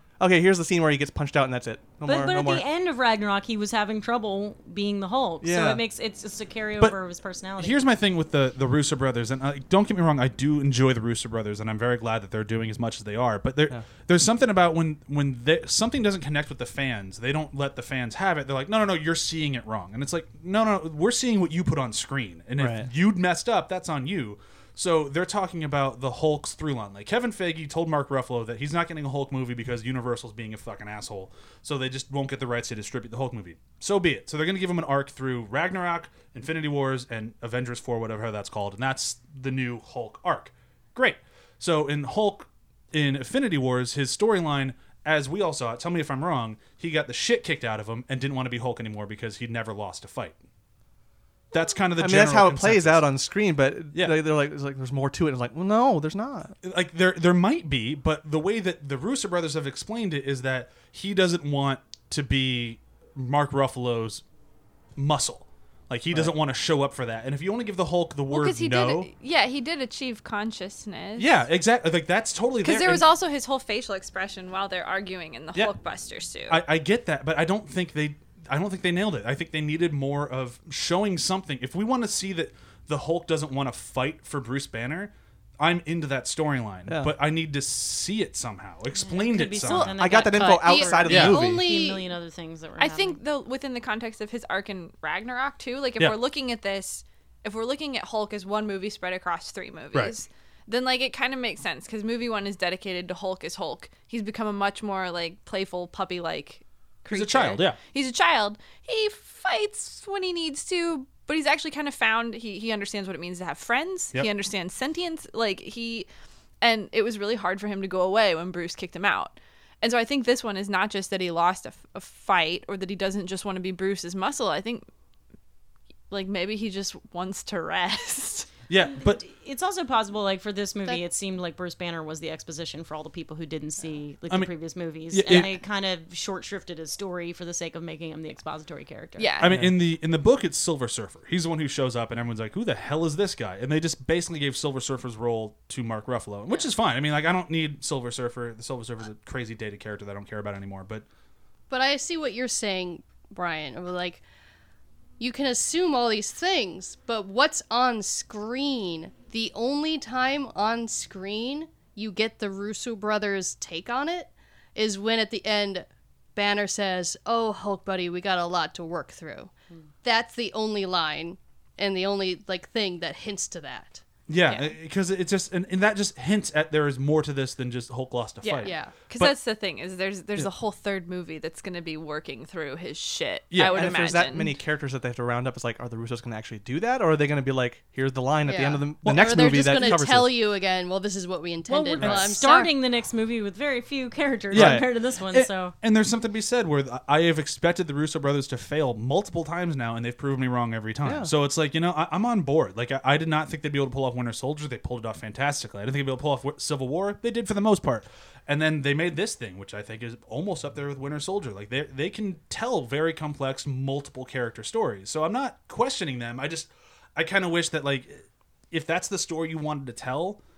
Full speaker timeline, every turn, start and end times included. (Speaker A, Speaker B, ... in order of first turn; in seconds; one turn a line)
Speaker A: 0.2-2.6
Speaker B: 2.0-7.8
Speaker A: 5.4-5.8
Speaker C: 7.6-50.4
Speaker A: 22.6-22.9
Speaker C: 51.5-53.0
Speaker A: 52.0-56.5
Speaker C: 56.6-64.2
Speaker C: 65.0-69.1
Speaker D: 68.3-71.4
Speaker C: 71.2-73.0
Speaker D: 72.6-76.6
Speaker C: 76.5-90.2
Speaker A: 86.9-87.1
Speaker B: 88.9-93.2
Speaker A: 89.7-91.7
Speaker E: 90.4-92.1
Speaker C: 91.0-91.4
Speaker D: 92.8-116.1
Speaker C: 107.1-107.8
Speaker D: 116.6-124.8
Speaker D: 126.1-128.5
Speaker C: 128.7-129.2
Speaker B: 129.0-139.3
Speaker C: 135.1-135.5
Speaker D: 139.2-139.6
Speaker C: 139.4-151.0
Speaker A: 139.5-139.8
Speaker E: 151.7-154.2
Speaker E: 155.2-169.5
Speaker E: 170.0-174.0
Speaker C: 174.3-179.3
Speaker D: 174.5-174.7
Speaker D: 178.4-184.6
Speaker E: 178.6-178.9
Speaker C: 183.5-184.0
Speaker A: 183.7-190.3
Speaker E: 188.4-192.7
Speaker C: 189.0-190.0
Speaker B: 191.7-195.7
Speaker C: 192.0-192.4
Speaker A: 194.5-194.9
Speaker C: 194.5-220.4
Speaker A: 201.0-201.3